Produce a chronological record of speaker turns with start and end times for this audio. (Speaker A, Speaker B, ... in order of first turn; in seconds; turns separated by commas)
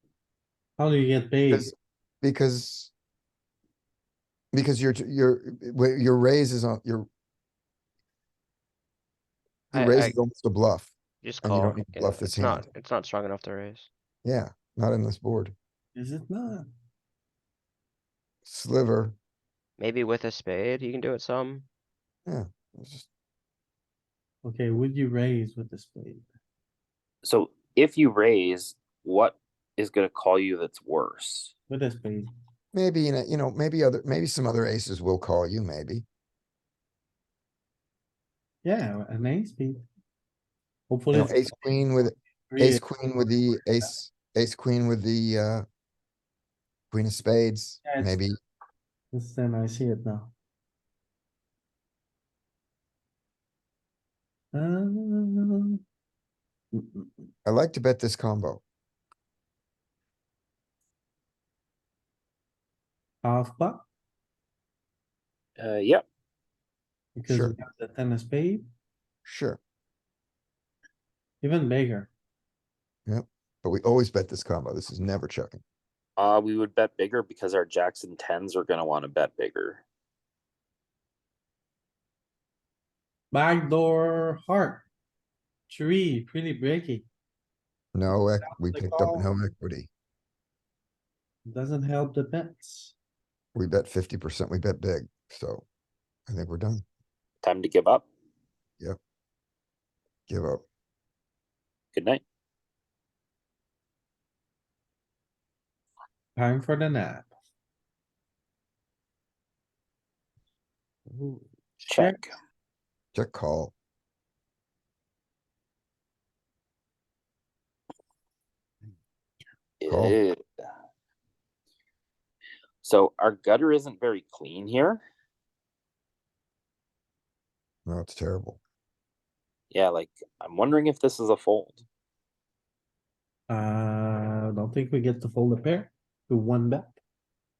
Speaker A: 0.8-1.7, Speaker B: 1.5-2.9, Speaker B: 4.5-7.1, Speaker B: 9.7-12.6, Speaker C: 9.7-10.2, Speaker C: 11.2-13.9, Speaker B: 14.2-15.6, Speaker A: 15.9-16.7, Speaker B: 18.4-19.1, Speaker C: 19.8-21.6, Speaker B: 22.2-23.1, Speaker A: 24.4-26.3, Speaker D: 27.2-31.5, Speaker A: 31.7-32.3, Speaker B: 32.7-36.0, Speaker A: 38.6-39.8, Speaker A: 40.9-41.9, Speaker B: 41.1-45.6, Speaker A: 42.5-42.9, Speaker B: 46.9-48.4, Speaker A: 47.8-48.2, Speaker A: 49.1-50.3, Speaker A: 54.5-55.8, Speaker A: 56.7-57.3, Speaker B: 57.4-58.6, Speaker A: 63.2-63.9, Speaker D: 65.6-66.0, Speaker A: 67.1-68.7, Speaker B: 67.3-67.5, Speaker B: 69.2-69.6, Speaker A: 71.4-72.1, Speaker B: 73.1-75.6, Speaker D: 76.2-79.8, Speaker A: 83.3-84.9, Speaker A: 85.7-87.1, Speaker B: 87.9-89.9, Speaker A: 88.4-89.3, Speaker A: 91.4-92.9, Speaker B: 93.5-95.7, Speaker B: 96.3-96.8, Speaker D: 97.4-98.0, Speaker B: 100.3-100.6, Speaker D: 101.9-102.2, Speaker A: 106.3-107.3, Speaker A: 111.8-112.2, Speaker D: 111.9-112.3, Speaker B: 113.1-113.7, Speaker D: 119.8-120.4, Speaker B: 119.9-120.2, Speaker D: 122.8-125.0, Speaker B: 127.8-128.6, Speaker D: 129.7-131.8, Speaker A: 133.5-137.0